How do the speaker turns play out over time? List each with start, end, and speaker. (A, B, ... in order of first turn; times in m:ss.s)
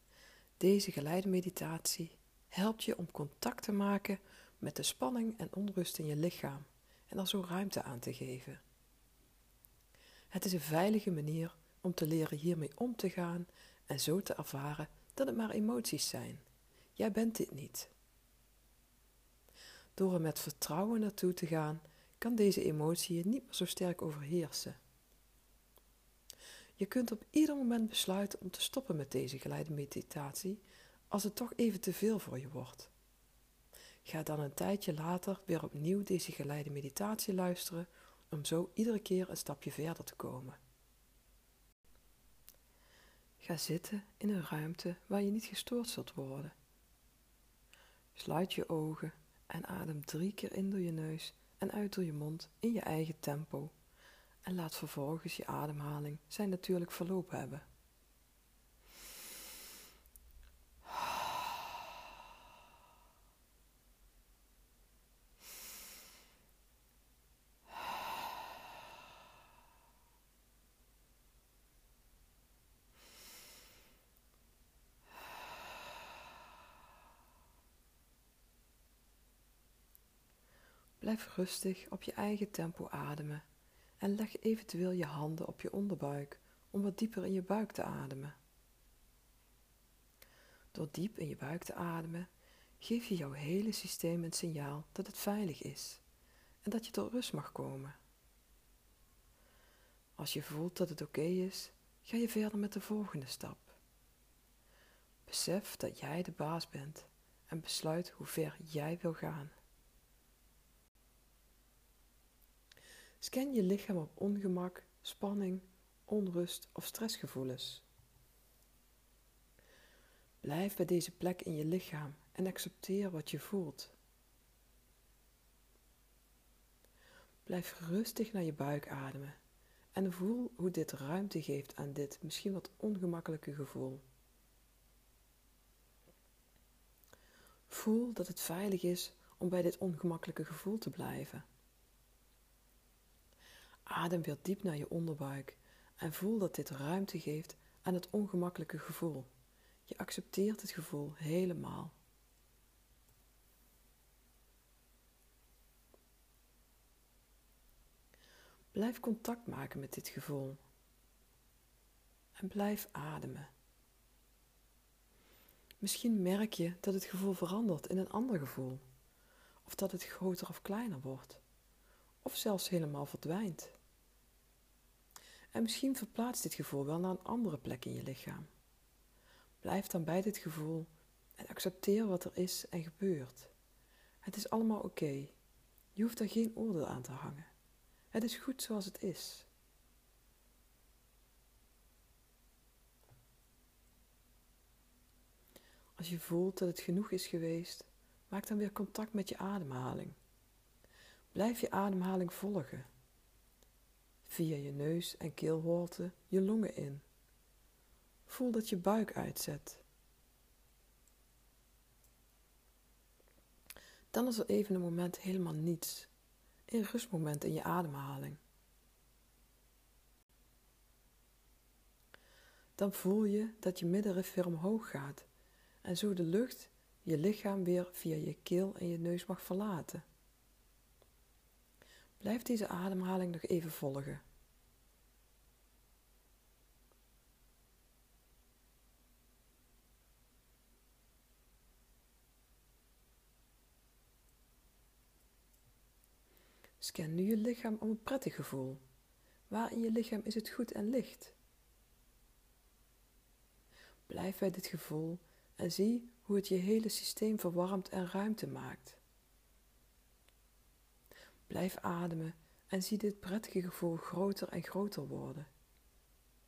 0:00.6-0:08.6 A
0:10.3-0:16.4 A
0:17.0-0:17.9 A
0:20.0-0:24.8 A
0:26.8-0:32.9 A
0:34.0-0:40.6 A
0:43.4-0:46.5 A
0:48.1-0:53.7 A
0:54.4-0:57.6 A
1:21.0-1:23.4 A
1:24.0-1:28.4 A
1:30.7-1:32.3 A
1:32.8-1:36.0 A
1:36.6-1:38.0 A
1:40.2-1:43.8 A
1:45.2-1:49.5 A
1:53.2-1:57.8 A
2:00.4-2:03.9 A
2:07.4-2:09.4 A
2:09.9-2:14.0 A
2:17.7-2:21.4 A
2:23.9-2:29.3 A
2:29.9-2:31.9 A
2:38.7-2:40.6 A
2:42.4-2:43.5 A
2:45.8-2:48.8 A
2:49.6-2:51.4 A
2:52.2-2:53.8 A
2:55.5-2:58.5 A
2:59.6-3:03.5 A
3:04.2-3:05.4 A
3:06.0-3:07.5 A
3:08.1-3:09.5 A
3:16.0-3:20.2 A
3:21.3-3:22.9 A
3:24.2-3:27.0 A
3:28.3-3:29.8 A
3:34.1-3:36.1 A
3:36.7-3:38.4 A
3:42.8-3:45.3 A
3:45.8-3:50.0 A
3:52.2-3:54.2 A
4:06.8-4:08.8 A
4:09.5-4:11.3 A
4:14.1-4:19.0 A
4:21.5-4:25.5 A